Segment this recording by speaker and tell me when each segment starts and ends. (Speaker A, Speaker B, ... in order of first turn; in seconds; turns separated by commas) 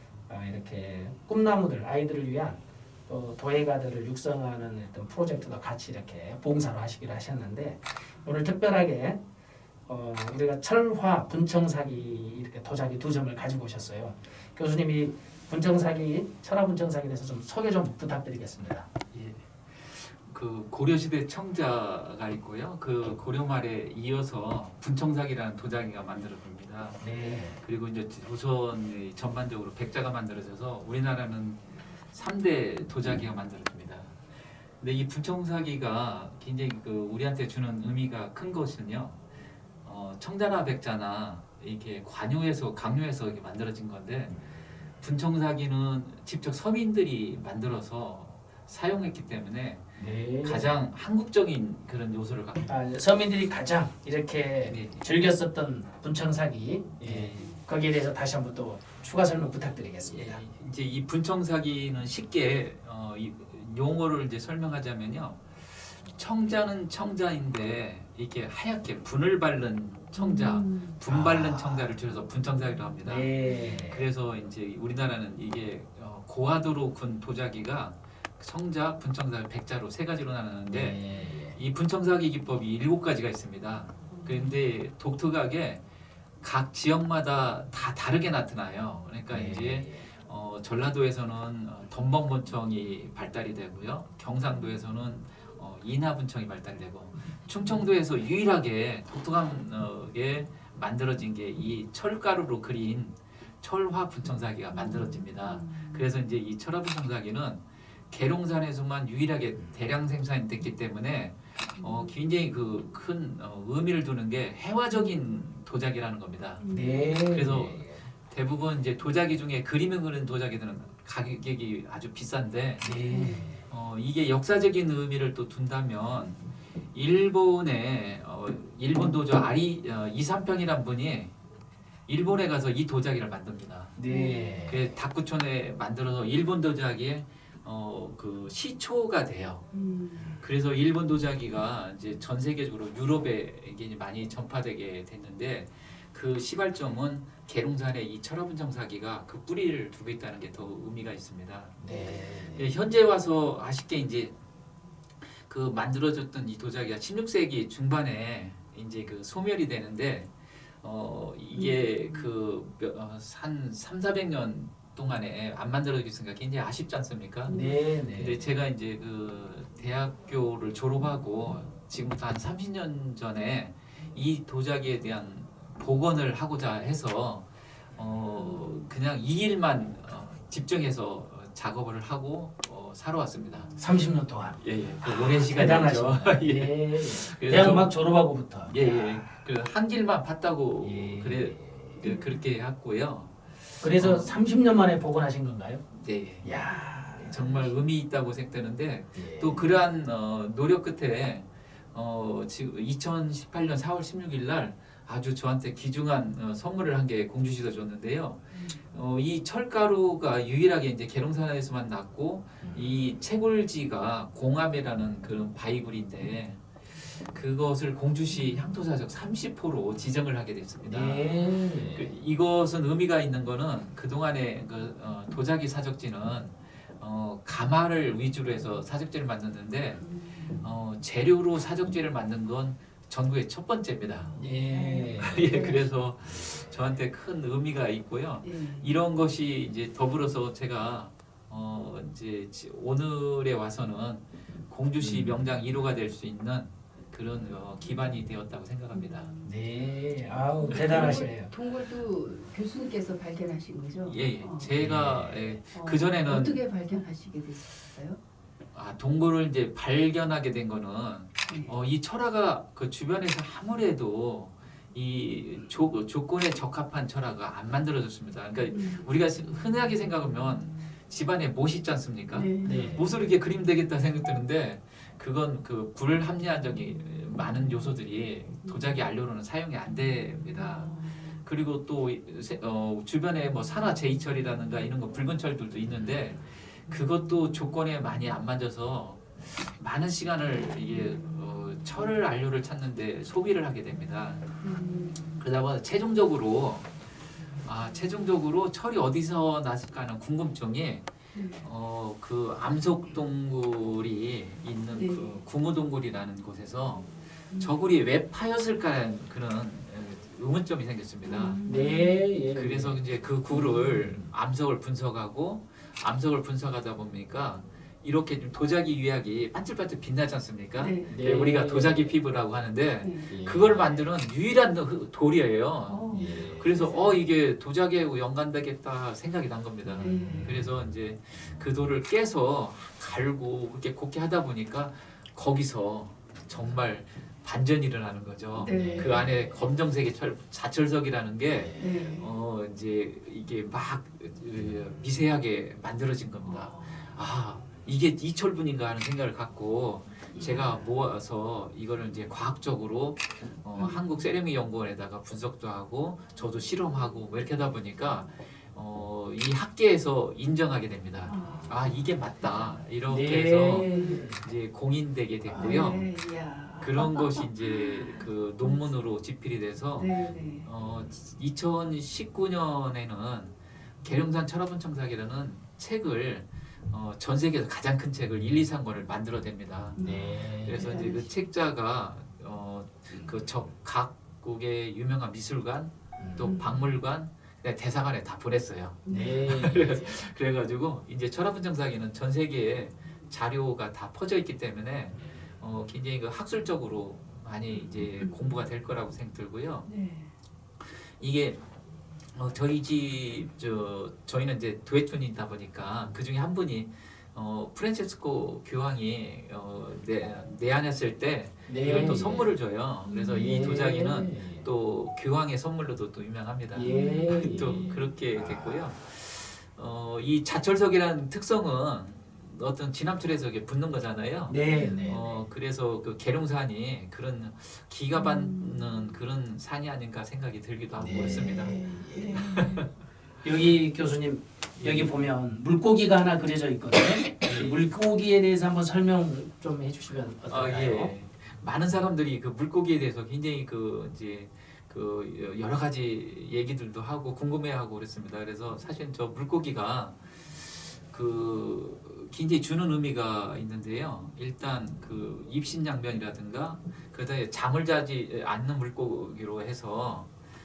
Speaker A: 0.3-9.2, Speaker A: 9.9-18.9, Speaker B: 19.1-34.1, Speaker A: 27.0-27.6, Speaker B: 34.8-39.2, Speaker B: 39.8-44.4, Speaker B: 45.0-49.9, Speaker A: 50.0-50.8, Speaker B: 50.4-52.7, Speaker A: 52.7-60.4, Speaker B: 54.6-55.0, Speaker B: 57.0-57.5, Speaker B: 60.1-85.8, Speaker C: 70.1-71.0, Speaker A: 71.1-71.9, Speaker A: 73.0-74.0, Speaker C: 73.4-73.7, Speaker A: 80.7-81.6, Speaker B: 86.4-116.6, Speaker A: 89.3-90.0, Speaker C: 104.9-106.0, Speaker C: 111.8-112.1, Speaker C: 116.6-117.2, Speaker A: 116.7-118.0, Speaker B: 117.2-123.0, Speaker A: 122.8-123.6, Speaker C: 123.1-123.5, Speaker B: 123.6-126.4, Speaker B: 126.9-131.3, Speaker B: 132.1-133.9, Speaker A: 134.0-134.9, Speaker C: 134.1-134.6, Speaker B: 134.7-139.6, Speaker C: 139.7-140.4, Speaker B: 140.4-152.0, Speaker A: 151.8-152.7, Speaker B: 152.5-154.3, Speaker B: 155.4-167.6, Speaker C: 161.5-161.8, Speaker C: 167.4-167.8, Speaker A: 167.5-168.4, Speaker B: 168.1-183.7, Speaker C: 178.4-178.8, Speaker A: 183.8-189.2, Speaker B: 184.6-187.9, Speaker B: 188.6-194.3, Speaker A: 190.8-191.9, Speaker C: 192.0-192.3, Speaker A: 193.8-195.8, Speaker B: 195.9-196.6, Speaker A: 196.4-197.7, Speaker B: 197.2-230.0, Speaker A: 199.1-199.7, Speaker A: 212.6-212.9, Speaker A: 220.9-222.1, Speaker C: 230.0-230.6, Speaker B: 230.6-234.4, Speaker A: 234.3-235.5, Speaker C: 234.6-235.8, Speaker B: 235.2-249.3, Speaker C: 238.4-238.9, Speaker A: 245.0-245.4, Speaker C: 248.9-249.5, Speaker A: 249.4-251.5, Speaker C: 250.6-254.8, Speaker B: 250.7-251.3, Speaker B: 254.0-256.6, Speaker A: 254.8-255.6, Speaker C: 255.7-258.2, Speaker B: 258.7-294.4, Speaker C: 268.7-269.0, Speaker C: 272.3-272.9, Speaker A: 272.6-273.1, Speaker C: 280.8-281.2, Speaker C: 294.6-295.4, Speaker B: 295.4-296.9, Speaker B: 297.6-301.1, Speaker C: 301.3-301.6, Speaker B: 301.6-311.7, Speaker C: 304.9-305.3, Speaker C: 311.2-312.3, Speaker A: 311.6-313.0, Speaker B: 312.5-366.2, Speaker C: 313.5-314.1, Speaker C: 320.8-321.2, Speaker A: 321.1-322.1, Speaker C: 323.0-323.4, Speaker A: 323.3-324.0, Speaker C: 325.9-326.4, Speaker A: 326.1-327.2, Speaker A: 329.9-330.6, Speaker C: 330.0-330.5, Speaker C: 338.6-339.2, Speaker A: 338.6-339.5, Speaker A: 341.5-342.3, Speaker C: 341.8-342.2, Speaker A: 350.4-350.8, Speaker C: 353.8-354.0, Speaker C: 361.2-361.8, Speaker A: 363.1-364.4, Speaker C: 363.7-364.2, Speaker A: 365.4-365.8, Speaker C: 365.5-368.9, Speaker B: 366.8-399.9, Speaker C: 369.9-370.7, Speaker C: 379.9-381.3, Speaker A: 380.0-381.3, Speaker A: 386.2-386.5, Speaker C: 386.4-386.9, Speaker C: 389.0-389.4, Speaker A: 389.1-390.2, Speaker C: 397.9-398.5, Speaker C: 399.9-400.3, Speaker B: 400.8-401.6, Speaker B: 402.3-432.9, Speaker A: 411.7-412.5, Speaker C: 411.9-412.2, Speaker C: 413.0-413.7, Speaker A: 413.3-414.6, Speaker A: 416.7-418.8, Speaker C: 416.9-418.0, Speaker A: 424.5-425.2, Speaker C: 424.7-425.2, Speaker C: 428.1-428.9, Speaker A: 430.9-432.5, Speaker C: 431.5-432.8, Speaker A: 433.4-441.1, Speaker B: 434.8-435.2, Speaker B: 437.4-437.8, Speaker B: 440.5-460.3